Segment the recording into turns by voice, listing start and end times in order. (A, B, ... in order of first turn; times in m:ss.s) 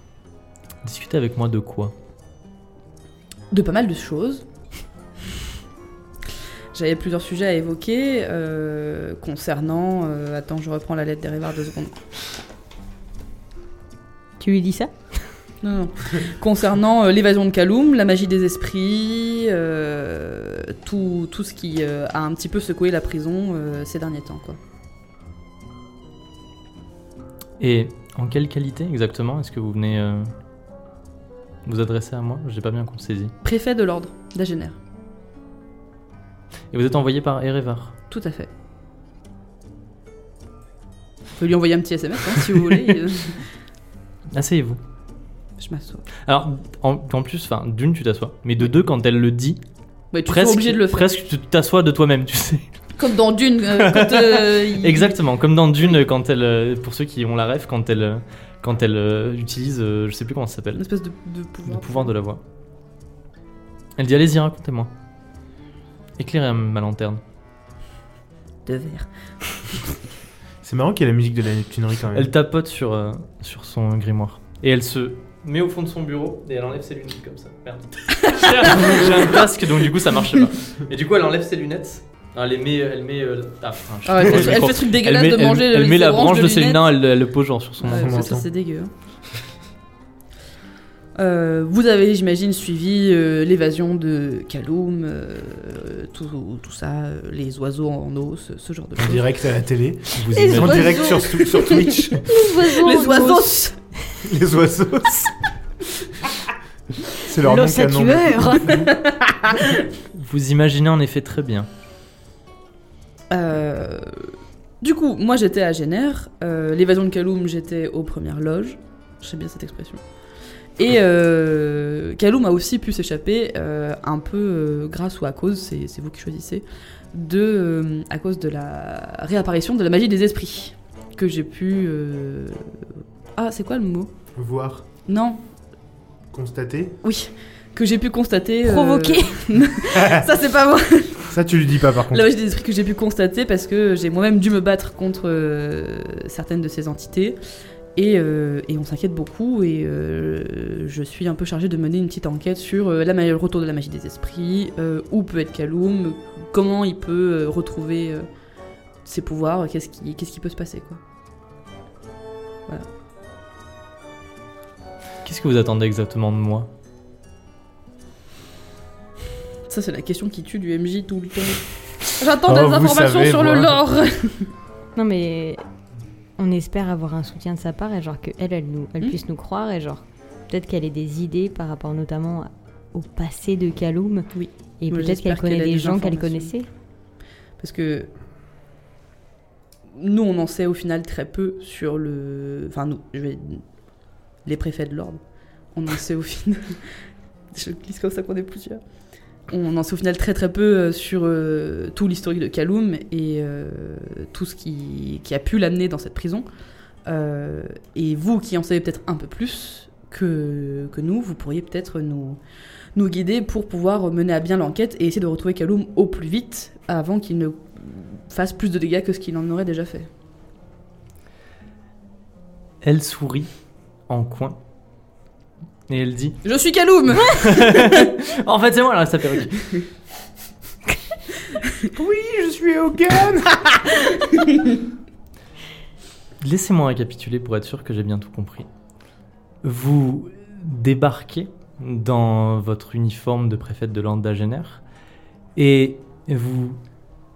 0:00.8-0:01.9 A
0:03.5-0:04.4 B
0:06.7-0:11.9 B
0:14.4-0:15.2 C
0:15.6-0:24.6 B
0:27.6-0:30.3 A
0:31.6-0:33.3 A
0:33.4-0:34.8 B
0:36.7-0:37.9 A
0:38.1-0:38.5 B
0:41.4-0:43.4 B
0:44.3-0:44.8 A
0:45.6-0:46.1 B
0:46.2-0:49.6 A
0:50.1-0:51.1 B
0:50.2-0:52.7 A
0:53.0-0:55.2 B
0:53.7-1:00.8 A
1:00.8-1:02.1 B
1:01.7-1:02.4 A
1:04.0-1:04.9 A
1:06.2-1:07.2 A
1:08.7-1:09.1 B
1:10.6-1:12.3 D
1:12.2-1:28.3 A
1:18.3-1:19.1 B
1:24.1-1:26.8 B
1:27.8-1:28.9 B
1:27.9-1:28.5 D
1:31.2-1:39.3 B
1:39.0-1:42.3 D
1:40.1-1:41.0 A
1:40.3-1:41.4 C
1:41.1-1:43.8 B
1:42.1-1:43.7 C
1:44.2-1:45.3 D
1:47.2-1:48.9 D
1:47.4-1:48.9 C
1:48.7-1:49.7 B
1:50.1-1:51.7 A
1:53.3-2:00.0 B
2:00.8-2:12.6 B
2:13.4-2:14.1 B
2:14.4-2:14.8 D
2:15.1-2:15.4 B
2:16.3-2:17.0 D
2:17.0-2:21.3 B
2:18.6-2:19.4 C
2:19.9-2:20.2 D
2:21.3-2:22.3 D
2:22.1-2:27.4 B
2:28.0-2:38.3 B
2:39.0-2:41.0 B
2:45.2-2:46.7 A
2:49.7-2:54.5 B
2:52.5-2:53.9 D
2:55.0-2:55.6 C
2:56.4-3:04.3 C
3:04.3-3:06.5 B
3:04.8-3:06.7 C
3:07.6-3:08.1 B
3:09.9-3:13.6 B
3:14.4-3:15.2 B
3:15.7-3:16.9 B
3:17.5-3:18.8 B
3:19.5-3:26.5 B
3:27.1-3:32.4 B
3:33.0-3:40.1 B
3:42.8-3:43.5 A
3:44.1-3:44.6 A
3:45.9-3:46.4 A
3:46.4-3:48.1 B
3:47.2-3:49.8 A
3:51.9-3:54.1 D
3:54.3-3:54.7 B
3:56.4-3:58.7 A
3:59.6-4:04.8 A
4:05.6-4:06.8 A